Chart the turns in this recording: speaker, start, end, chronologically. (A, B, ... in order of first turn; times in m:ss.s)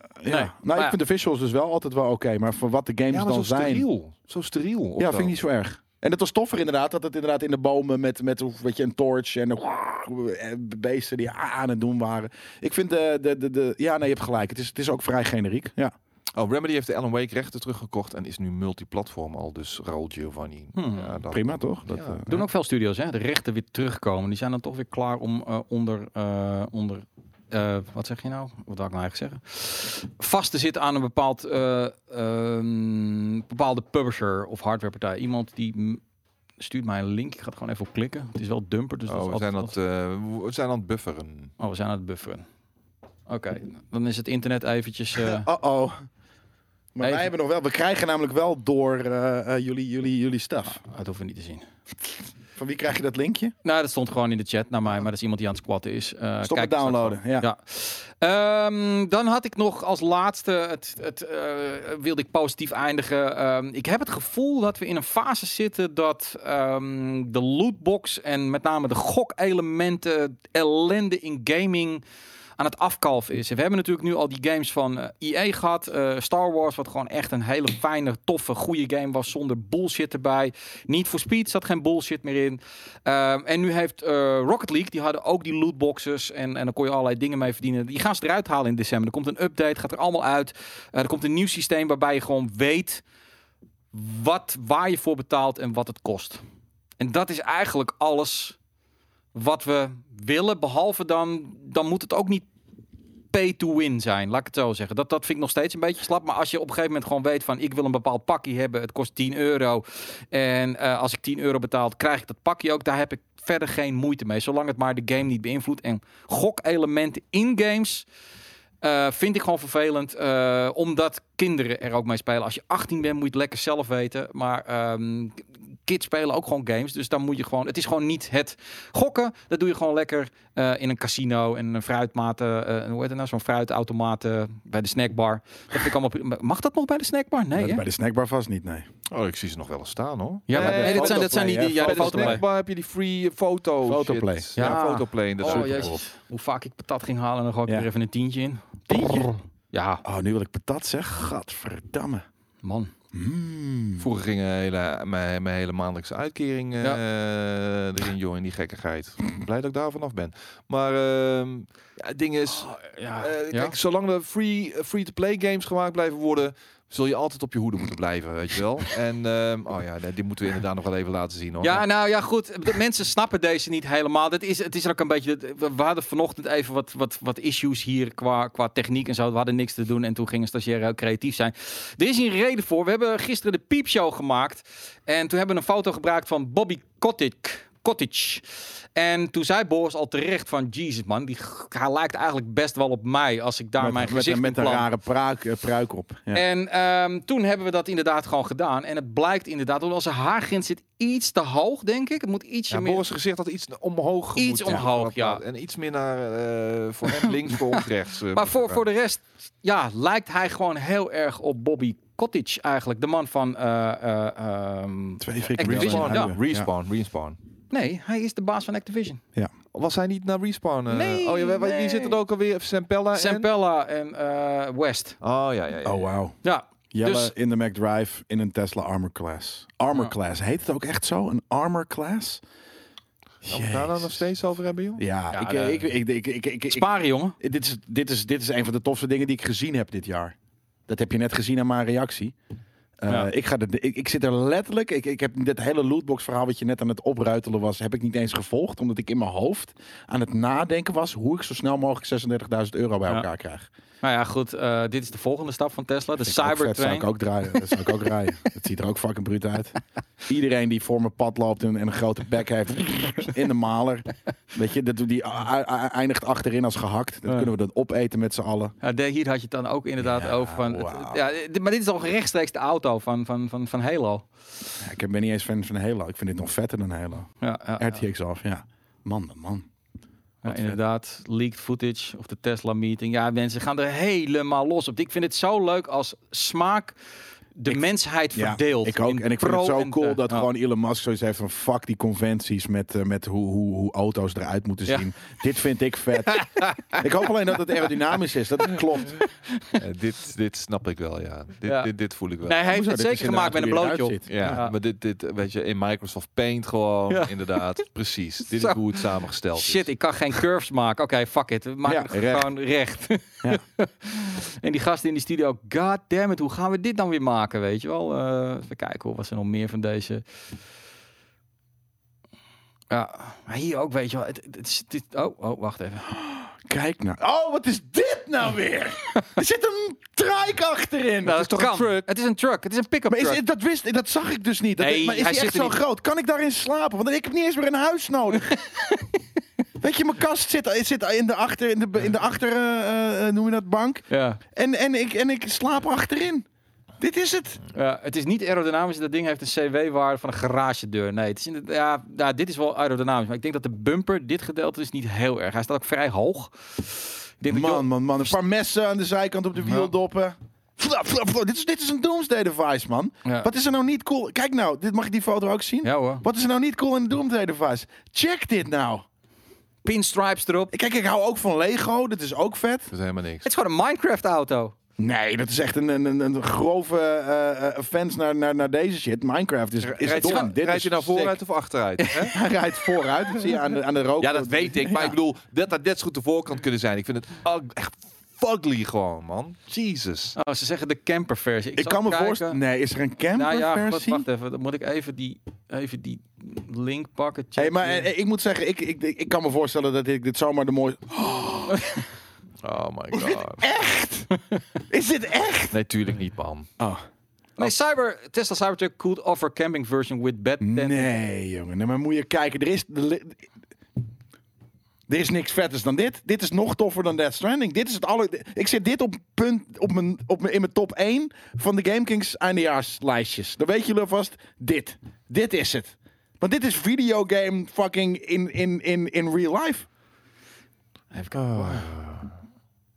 0:00.2-0:03.8 A
0:00.3-0:01.0 B
0:03.1-0:05.3 C
0:05.0-0:15.9 A
0:16.3-0:22.3 C
0:20.7-0:21.2 B
0:21.3-0:22.4 A
0:22.3-0:36.0 B
0:36.6-0:39.7 B
0:39.1-0:41.5 C
0:41.6-0:42.4 B
0:43.3-0:45.4 B
0:45.2-0:46.0 A
0:46.9-0:50.8 A
0:47.0-0:47.3 B
0:50.7-0:51.6 B
0:52.6-0:53.5 A
0:53.6-1:12.0 B
0:56.4-0:57.5 A
1:12.6-1:33.0 B
1:33.9-1:36.4 B
1:37.0-1:38.6 B
1:39.3-1:42.5 B
1:43.3-1:58.0 B
1:58.8-2:17.8 B
2:17.5-2:18.9 A
2:19.1-2:25.9 C
2:20.5-2:22.4 B
2:20.5-2:22.4 A
2:23.8-2:26.0 A
2:24.6-2:30.0 B
2:28.9-2:29.3 A
2:30.0-2:32.2 A
2:32.6-2:32.9 B
2:33.1-2:34.1 A
2:34.0-2:51.8 C
2:42.6-2:43.7 B
2:51.6-3:14.9 B
3:13.8-3:16.4 A
3:16.3-3:23.0 B
3:22.7-3:28.8 C
3:24.4-3:25.4 B
3:27.2-3:27.8 B
3:28.3-3:36.3 B
3:35.2-3:36.7 A
3:35.6-3:37.4 C
3:37.7-3:39.2 B
3:39.7-3:43.5 C
3:40.9-3:42.2 B
3:43.1-3:45.2 B
3:45.2-3:46.1 C
3:45.8-3:46.4 A
3:46.4-3:47.3 B
3:46.9-3:52.4 A
3:53.4-3:54.2 A
3:53.4-3:55.0 C
3:55.0-3:56.9 A
3:55.3-3:55.8 B
3:56.7-3:57.3 B
3:57.4-4:00.3 A
4:00.9-4:02.3 A
4:03.0-4:13.7 A
4:14.0-4:17.1 B
4:16.2-4:28.7 A
4:28.8-4:34.2 B
4:30.0-4:31.2 A
4:34.8-4:39.6 A
4:37.4-4:38.0 B
4:40.4-4:47.0 B
4:40.4-4:40.8 A
4:47.6-4:50.4 B
4:48.3-4:59.2 A
4:59.8-5:02.6 C
5:01.6-5:01.9 B
5:02.4-5:04.7 B
5:02.7-5:04.6 A
5:04.3-5:09.8 C
5:07.1-5:07.6 B
5:09.6-5:20.2 B
5:11.8-5:12.4 A
5:22.9-5:26.1 B
5:26.1-5:31.5 A
5:31.2-5:33.4 B
5:31.4-5:32.0 C
5:33.1-5:38.5 A
5:34.8-5:35.8 B
5:38.5-5:39.1 B
5:39.8-5:46.4 A
5:44.1-5:44.4 B
5:47.0-5:47.6 A
5:47.7-5:57.9 B
5:57.5-6:09.0 A
6:03.2-6:03.5 B
6:05.8-6:06.2 B
6:09.8-6:10.7 B
6:10.7-6:12.9 A
6:12.9-6:13.4 C
6:13.4-6:14.7 B
6:15.0-6:21.4 A
6:19.8-6:22.3 C
6:20.1-6:20.5 B
6:22.0-6:22.3 B
6:22.3-6:25.2 A
6:24.2-6:30.4 C
6:30.4-6:32.6 B
6:31.8-6:34.2 A
6:33.4-6:38.1 B
6:37.6-6:42.0 A
6:42.6-6:43.7 C
6:43.1-6:44.3 A
6:44.9-6:45.7 A
6:45.7-6:46.7 C
6:46.8-6:47.0 A
6:47.6-6:51.1 B
6:50.6-6:53.5 A
6:55.1-7:09.8 A
7:11.1-7:11.9 B
7:11.5-7:12.3 C